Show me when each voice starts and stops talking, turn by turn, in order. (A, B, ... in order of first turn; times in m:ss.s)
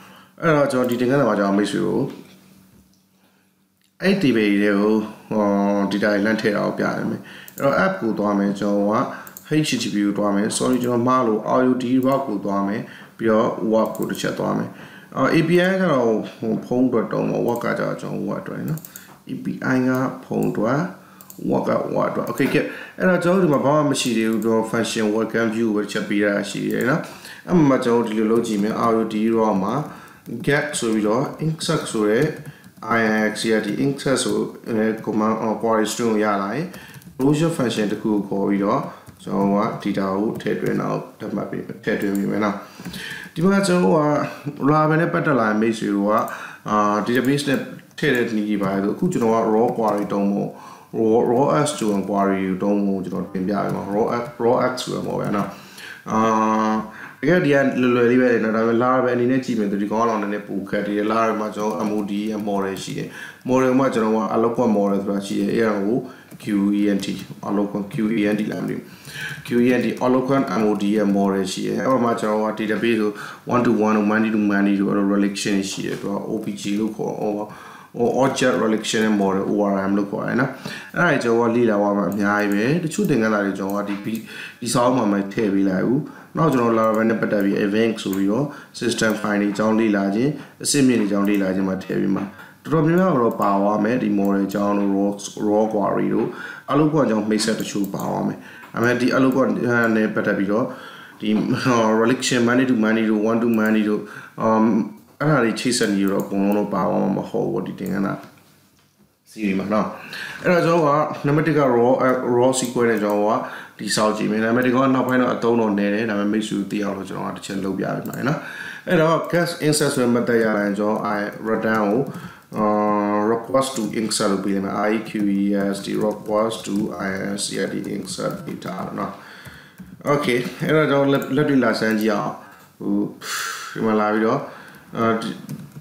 0:00.4-0:02.1 A
0:04.0-0:42.6 A
0:43.3-0:55.5 A
0:56.0-1:08.8 A
1:09.4-1:48.2 A
1:49.3-2:09.1 A
2:10.0-2:15.6 A